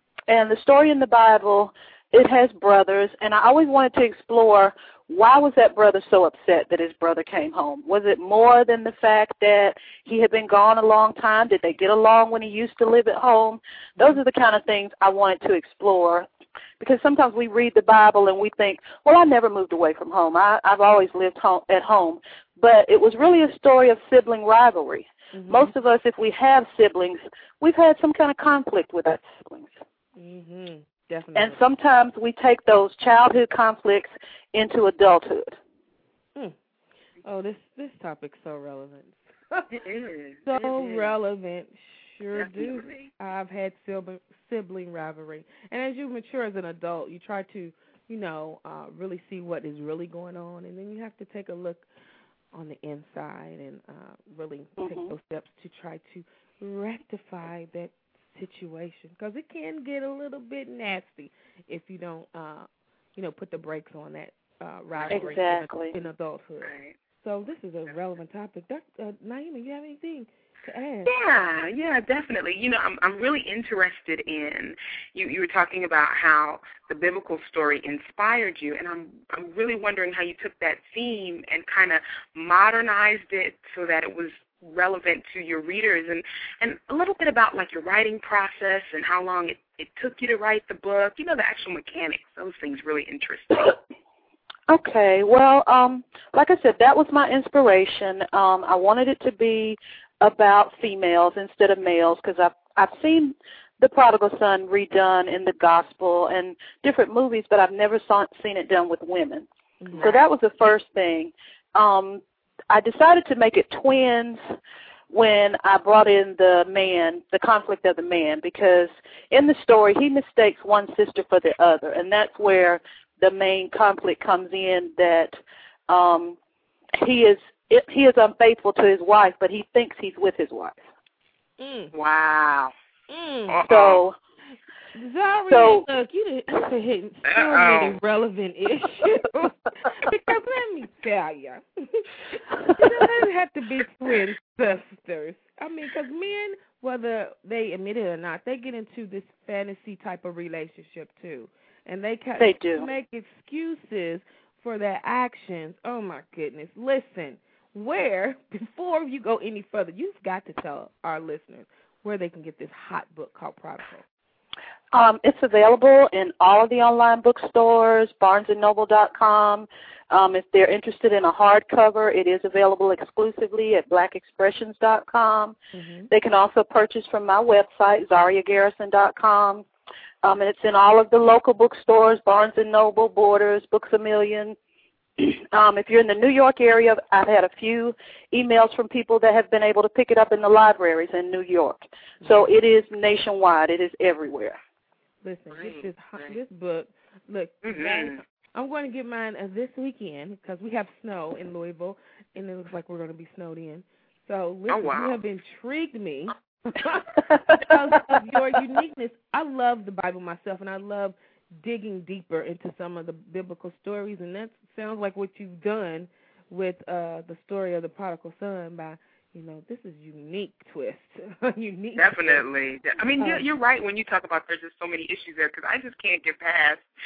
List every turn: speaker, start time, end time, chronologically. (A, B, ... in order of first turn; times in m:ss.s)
0:00.3-0:16.3 A
0:16.8-0:29.7 A
0:25.3-0:25.8 B
0:30.2-0:31.6 B
0:31.4-0:35.6 A
0:37.2-0:39.7 B
0:39.7-0:41.1 C
0:40.5-0:51.9 B
0:42.3-0:43.1 C
0:52.5-1:11.1 B
0:54.8-0:55.1 A
1:05.0-1:05.3 C
1:05.1-1:05.9 A
1:06.6-1:07.0 C
1:11.1-1:33.8 C
1:34.7-1:49.5 A
1:49.8-1:50.2 B
1:50.0-1:54.4 A
1:55.1-2:06.4 A
2:07.0-2:10.8 A
2:11.6-2:11.9 B
2:11.9-2:12.7 C
2:13.1-2:13.6 B
2:13.5-2:14.0 C
2:13.7-2:14.2 A
2:14.9-2:22.1 B
2:15.5-2:15.8 A
2:17.2-2:18.0 C
2:22.7-2:44.0 B
2:32.4-2:32.8 A
2:44.9-2:55.6 A
2:55.7-2:56.1 B
2:56.1-2:59.7 A
3:00.2-3:04.6 A
3:05.2-3:14.6 A
3:15.2-3:42.4 B
3:15.5-3:16.4 C
3:17.6-3:18.2 C
3:24.7-3:25.2 C
3:42.0-3:46.8 C
3:43.2-3:43.4 B